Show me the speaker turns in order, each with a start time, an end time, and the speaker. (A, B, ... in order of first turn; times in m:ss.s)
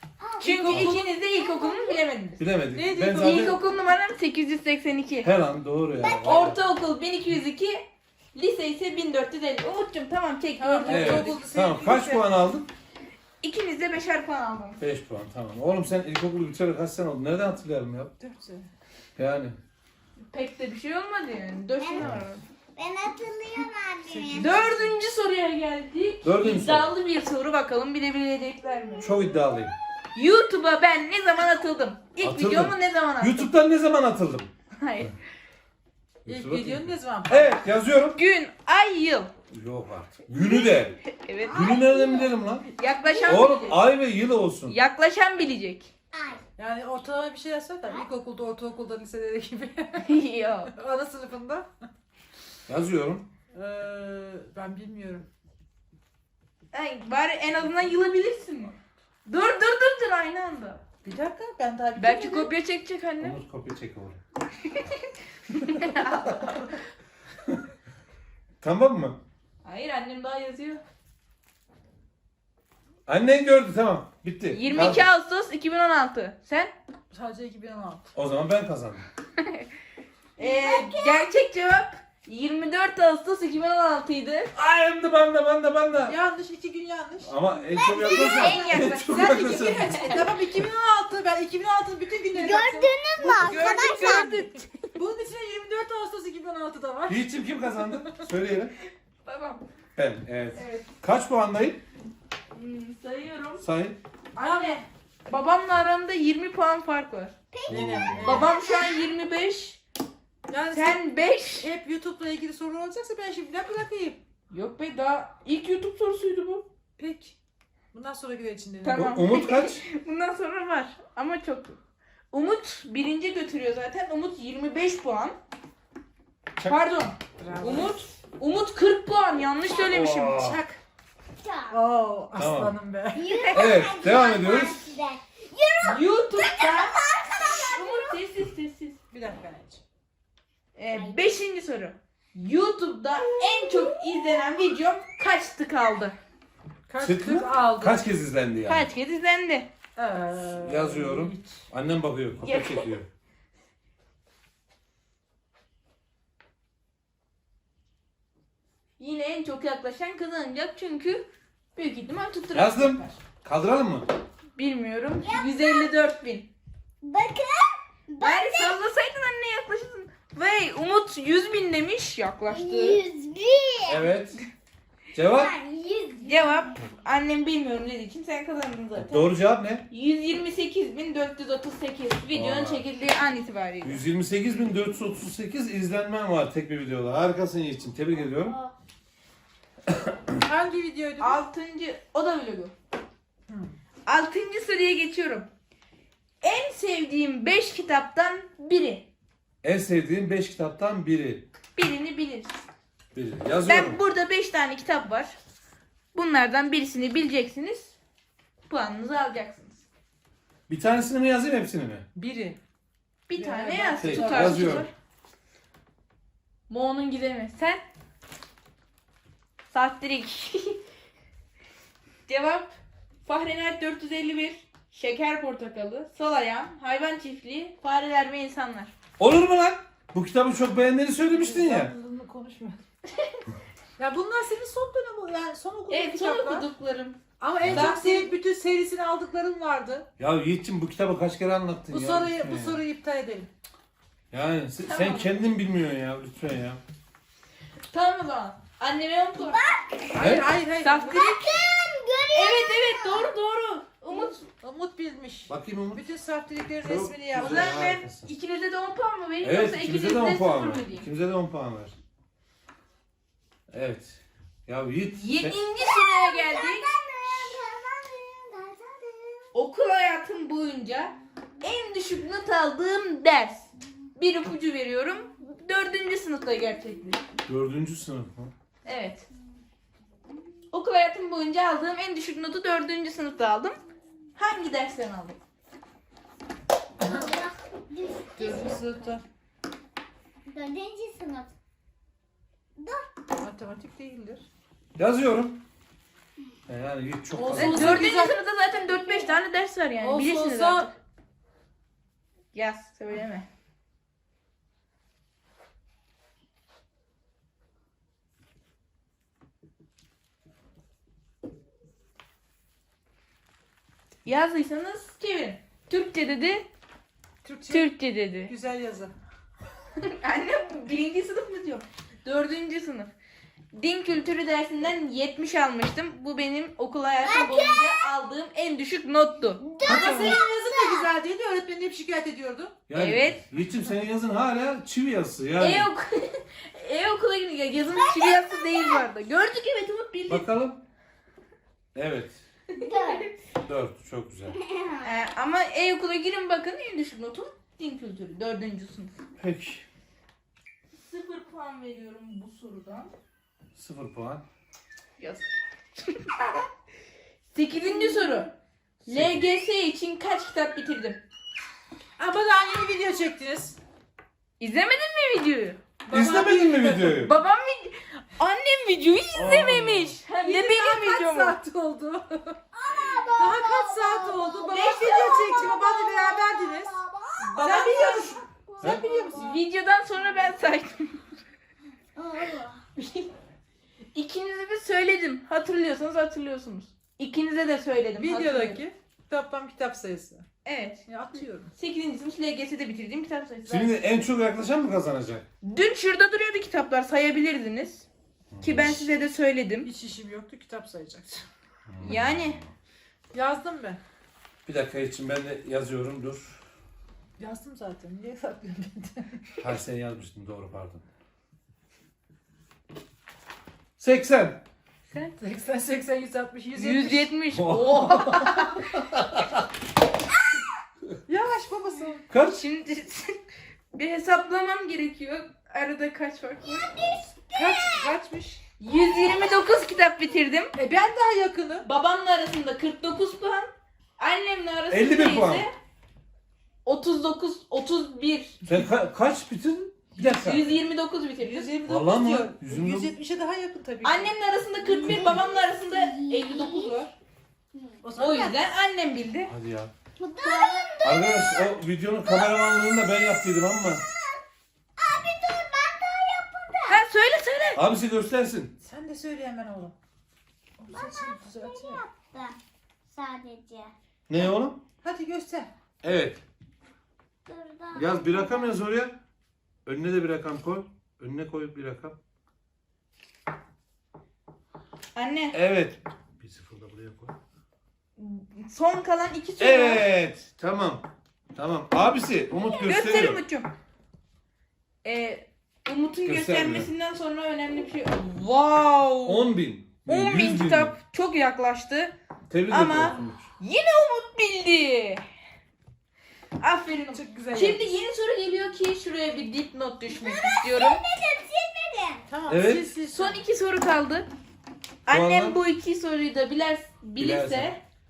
0:00.2-0:02.0 A
0:00.4-0:02.4 B
0:00.7-0:01.0 C
0:02.4-0:03.6 C
0:02.7-0:03.5 D
0:03.1-0:05.3 B
0:05.2-0:06.6 C
0:06.0-0:06.5 A
0:06.2-0:07.8 B
0:08.3-0:11.4 B
0:10.6-0:12.2 D
0:10.8-0:12.7 C
0:13.4-0:14.8 B
0:14.8-0:18.1 C
0:18.2-0:18.7 D
0:19.2-0:19.6 C
0:20.2-0:22.4 B
0:21.8-0:22.1 A
0:22.0-0:22.3 C
0:22.7-0:24.6 A
0:24.0-0:25.0 D
0:24.4-0:29.1 B
0:26.2-0:26.9 C
0:29.0-0:29.7 C
0:30.1-0:33.5 B
0:32.2-0:34.5 C
0:34.8-0:35.2 B
0:36.2-0:38.2 C
0:36.3-0:37.6 D
0:38.1-0:39.3 B
0:39.5-0:41.0 C
0:41.0-0:41.7 B
0:41.5-0:42.6 C
0:41.6-0:42.3 A
0:42.8-0:43.8 B
0:43.0-0:43.6 A
0:43.2-0:44.8 C
0:44.7-0:45.9 B
0:46.1-0:46.4 A
0:46.6-0:50.2 D
0:50.0-0:50.7 B
0:50.7-0:51.7 D
0:52.7-0:53.3 C
0:53.5-0:55.2 D
0:56.7-1:00.8 B
1:01.0-1:02.5 D
1:02.0-1:03.4 B
1:03.2-1:04.2 C
1:04.7-1:06.8 B
1:08.6-1:09.2 C
1:09.6-1:10.8 B
1:13.1-1:15.1 C
1:14.5-1:16.7 B
1:17.1-1:18.1 D
1:18.1-1:19.0 C
1:19.4-1:19.6 B
1:20.4-1:24.5 B
1:20.4-1:21.3 A
1:24.5-1:26.2 C
1:26.0-1:27.3 D
1:27.2-1:30.0 C
1:27.7-1:28.6 A
1:27.9-1:30.2 B
1:28.0-1:34.4 D
1:32.3-1:34.4 A
1:33.3-1:34.8 B
1:34.9-1:38.2 D
1:37.1-1:38.7 C
1:39.2-1:39.6 B
1:40.0-1:41.8 C
1:40.6-1:40.9 B
1:42.5-1:43.6 B
1:43.6-1:44.0 C
1:44.3-1:47.3 B
1:44.4-1:44.8 D
1:47.5-1:49.0 A
1:47.7-1:48.5 C
1:47.7-1:48.5 D
1:48.2-1:49.8 B
1:50.5-1:51.0 D
1:50.7-1:51.7 B
1:51.6-1:54.2 D
1:54.5-1:56.6 B
1:57.0-1:57.3 D
1:57.9-1:59.0 D
1:58.8-2:01.8 B
1:58.9-1:59.8 C
2:02.3-2:05.4 B
2:06.6-2:10.6 B
2:07.4-2:08.0 D
2:09.9-2:10.6 C
2:10.2-2:10.8 D
2:11.4-2:11.8 A
2:11.7-2:13.2 D
2:12.3-2:12.7 C
2:13.1-2:18.2 A
2:13.3-2:13.6 B
2:13.5-2:14.8 C
2:15.8-2:17.0 B
2:17.6-2:19.0 B
2:19.1-2:19.8 D
2:20.8-2:26.1 B
2:20.9-2:21.3 A
2:23.6-2:24.4 A
2:26.9-2:28.0 D
2:27.0-2:28.9 C
2:28.7-2:29.7 B
2:30.0-2:31.6 D
2:30.6-2:33.1 C
2:32.4-2:33.0 B
2:39.0-2:43.2 B
2:42.5-2:44.1 C
2:44.6-2:46.5 B
2:45.2-2:45.9 A
2:47.0-2:48.8 A
2:48.2-2:53.0 B
2:52.5-2:54.0 A
2:53.8-2:54.4 C
2:55.1-2:55.5 C
2:55.3-2:56.7 A
2:56.2-2:59.3 B
2:59.0-2:59.9 C
2:59.9-3:04.0 B
3:02.3-3:02.9 C
3:03.8-3:08.6 C
3:08.4-3:08.7 A
3:09.9-3:10.2 C
3:10.4-3:11.4 D
3:11.2-3:12.7 B
3:13.5-3:13.7 D
3:14.1-3:15.5 B
3:16.4-3:19.1 B
3:19.6-3:21.4 C
3:21.8-3:22.5 B
3:23.1-3:24.0 C
3:23.6-3:25.4 B
3:26.1-3:27.9 B
3:28.7-3:29.8 B
3:30.7-3:32.0 C
3:32.1-3:32.6 D
3:33.3-3:34.9 B
3:33.3-3:34.8 D
3:34.0-3:34.9 C
3:36.7-3:37.8 B
3:39.7-3:40.8 B
3:42.3-3:42.7 B
3:43.2-3:48.9 B
3:49.2-3:51.9 C
3:51.3-3:52.8 D
3:53.1-3:53.4 B
3:54.0-3:56.7 D
3:55.9-3:58.3 B
3:57.4-4:00.1 D
4:00.2-4:02.8 C
4:01.9-4:03.5 D
4:04.3-4:06.8 C
4:04.8-4:05.4 B
4:07.9-4:09.6 B
4:09.4-4:10.3 A
4:10.1-4:11.2 D
4:10.2-4:10.5 C
4:10.8-4:11.5 B
4:11.1-4:13.3 A
4:12.3-4:14.4 B
4:14.6-4:17.8 D
4:15.5-4:16.0 C
4:16.8-4:18.3 C
4:17.4-4:21.0 B
4:19.4-4:21.9 C
4:23.7-4:25.6 C
4:25.1-4:27.5 B
4:25.8-4:29.5 A
4:29.5-4:37.2 B
4:37.5-4:38.5 C
4:38.8-4:39.2 B
4:40.7-4:43.8 B
4:44.4-4:45.4 B
4:47.0-4:47.3 D
4:47.0-4:49.1 A
4:48.4-4:49.2 D
4:50.5-4:51.5 A
4:52.8-4:53.1 A
4:53.4-4:54.4 D
4:55.0-4:55.6 C
4:56.7-4:58.1 C
4:57.3-4:58.4 D
4:57.5-5:00.9 B
5:00.0-5:00.9 D
5:02.5-5:03.4 B
5:14.2-5:16.6 B
5:17.4-5:17.9 D
5:17.7-5:18.5 B
5:18.5-5:19.1 D
5:20.0-5:23.1 B
5:23.7-5:29.7 B
5:27.2-5:28.0 A
5:29.6-5:31.1 A
5:29.8-5:32.8 D
5:29.8-5:30.4 C
5:32.9-5:35.9 C
5:32.9-5:33.4 B
5:35.6-5:40.5 B
5:38.0-5:39.0 A
5:40.3-5:40.8 C
5:41.9-5:42.4 C
5:42.7-5:43.2 B
5:42.8-5:43.3 A
5:43.6-5:44.6 C
5:44.5-5:45.0 A
5:45.0-5:49.1 B
5:49.4-5:49.8 C
5:51.0-5:53.1 B
5:53.8-5:54.4 C
5:55.2-5:55.5 B
5:56.0-5:56.6 B
5:57.5-5:58.5 B
5:58.2-5:58.4 A
5:59.0-6:01.2 B
5:59.1-5:59.4 C
6:02.2-6:03.8 D
6:04.6-6:05.8 B
6:06.0-6:07.2 D
6:06.1-6:07.3 C
6:07.1-6:11.6 B
6:09.3-6:10.2 C
6:10.4-6:12.6 D
6:12.7-6:19.6 A
6:13.3-6:17.0 D
6:14.7-6:15.7 B
6:17.5-6:18.4 B
6:17.5-6:19.6 D
6:19.3-6:21.2 B
6:22.2-6:22.8 A
6:23.0-6:23.3 B
6:24.1-6:28.8 B
6:28.2-6:30.4 D
6:30.6-6:31.0 B
6:31.0-6:31.7 D
6:31.7-6:33.9 B
6:33.7-6:35.4 C
6:35.6-6:38.1 B
6:38.5-6:39.1 C
6:38.6-6:39.9 B
6:39.8-6:41.4 D
6:41.9-6:42.7 C
6:42.0-6:42.6 B
6:43.3-6:44.0 D
6:44.6-6:46.6 C
6:47.4-6:49.6 D
6:49.6-6:51.0 C
6:54.0-6:54.6 C
6:55.1-6:55.4 B
6:55.4-6:57.3 D
6:56.7-6:58.9 B
6:57.5-6:59.6 C
7:01.3-7:02.2 D
7:02.3-7:02.6 C
7:02.5-7:03.4 B
7:03.9-7:06.9 B
7:06.7-7:08.0 A
7:07.5-7:08.6 D
7:08.8-7:10.7 B
7:08.9-7:09.6 A
7:10.7-7:11.8 D
7:11.8-7:15.7 B
7:14.9-7:15.6 C
7:16.8-7:18.6 B
7:18.6-7:20.6 C
7:20.2-7:21.7 B
7:21.4-7:24.3 D
7:21.8-7:23.1 C
7:24.0-7:27.1 B
7:24.9-7:27.0 A
7:27.7-7:28.0 A
7:28.0-7:28.6 D
7:28.2-7:29.5 B
7:29.5-7:29.9 C
7:30.2-7:33.2 A
7:30.4-7:30.9 B
7:31.0-7:34.0 C
7:33.9-7:34.4 A
7:35.0-7:37.0 A
7:36.9-7:37.8 B
7:37.8-7:38.7 C
7:38.8-7:39.9 D
7:40.8-7:42.0 D
7:40.9-7:42.6 A
7:43.1-7:43.9 A
7:44.3-7:44.8 C
7:45.0-7:45.7 D
7:46.0-7:46.4 C
7:47.5-7:48.7 A
7:47.9-7:49.2 C
7:49.8-7:52.2 C
7:55.1-7:55.5 B
7:55.5-7:57.3 C
7:58.2-8:00.0 B
7:59.6-8:03.4 C
8:02.6-8:03.7 B
8:05.0-8:09.5 B
8:06.2-8:06.9 C
8:09.2-8:10.9 C
8:10.0-8:12.1 B
8:12.5-8:13.4 C
8:12.7-8:15.2 B
8:16.6-8:21.0 B
8:17.1-8:17.9 D
8:20.1-8:22.2 A
8:22.3-8:23.4 D
8:22.5-8:22.9 C
8:23.1-8:24.3 B
8:25.0-8:27.8 B
8:25.1-8:25.6 C
8:27.2-8:27.7 C